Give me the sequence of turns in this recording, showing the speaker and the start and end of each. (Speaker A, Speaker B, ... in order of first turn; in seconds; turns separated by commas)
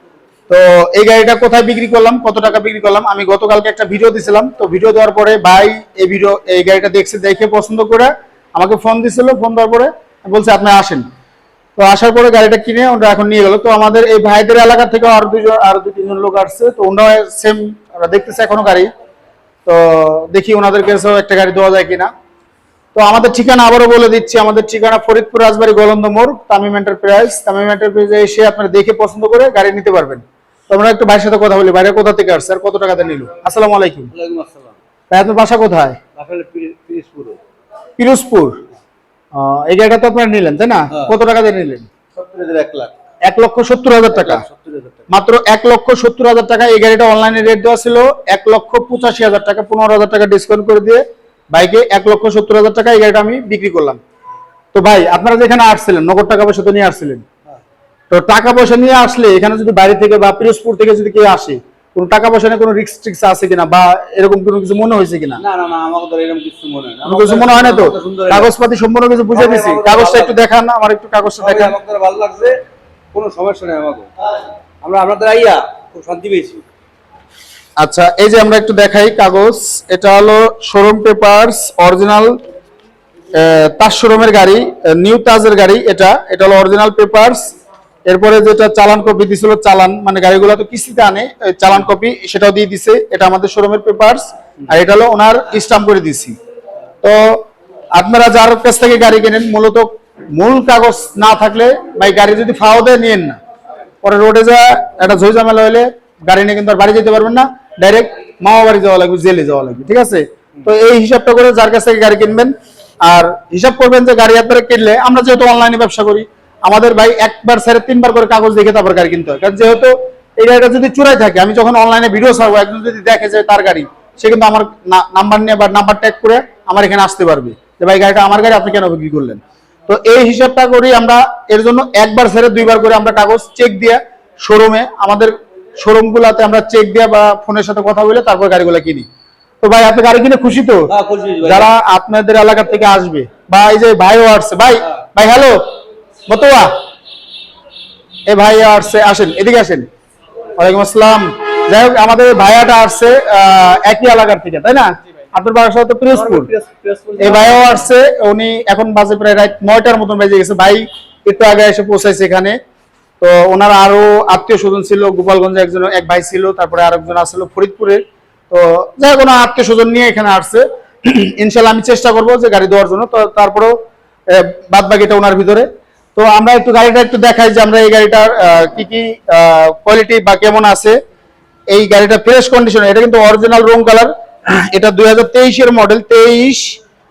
Speaker A: 0.5-11.0, Speaker A: 11.8-18.9, Speaker A: 19.6-22.1, Speaker A: 22.9-34.1, Speaker B: 34.1-34.8, Speaker A: 35.1-36.0, Speaker B: 36.1-37.4, Speaker A: 38.0-38.6, Speaker A: 39.3-41.9, Speaker B: 40.9-41.1, Speaker B: 42.1-42.9, Speaker A: 43.2-44.4, Speaker B: 44.1-45.1, Speaker A: 45.1-54.0, Speaker A: 54.7-57.2, Speaker A: 58.1-65.4, Speaker B: 65.4-68.5, Speaker A: 67.0-71.7, Speaker B: 69.3-70.4, Speaker B: 71.4-72.5, Speaker B: 73.1-74.1, Speaker B: 74.8-76.6, Speaker A: 77.8-82.4, Speaker A: 83.3-87.5, Speaker A: 88.1-96.4, Speaker A: 97.0-103.4, Speaker A: 104.0-139.1, Speaker A: 139.6-140.9, Speaker B: 140.9-141.7, Speaker A: 141.4-145.6, Speaker A: 146.3-146.7, Speaker A: 148.3-149.8, Speaker A: 150.6-156.5, Speaker B: 156.1-157.8, Speaker A: 157.2-162.6, Speaker A: 163.2-173.7, Speaker A: 174.3-181.0, Speaker A: 181.7-186.8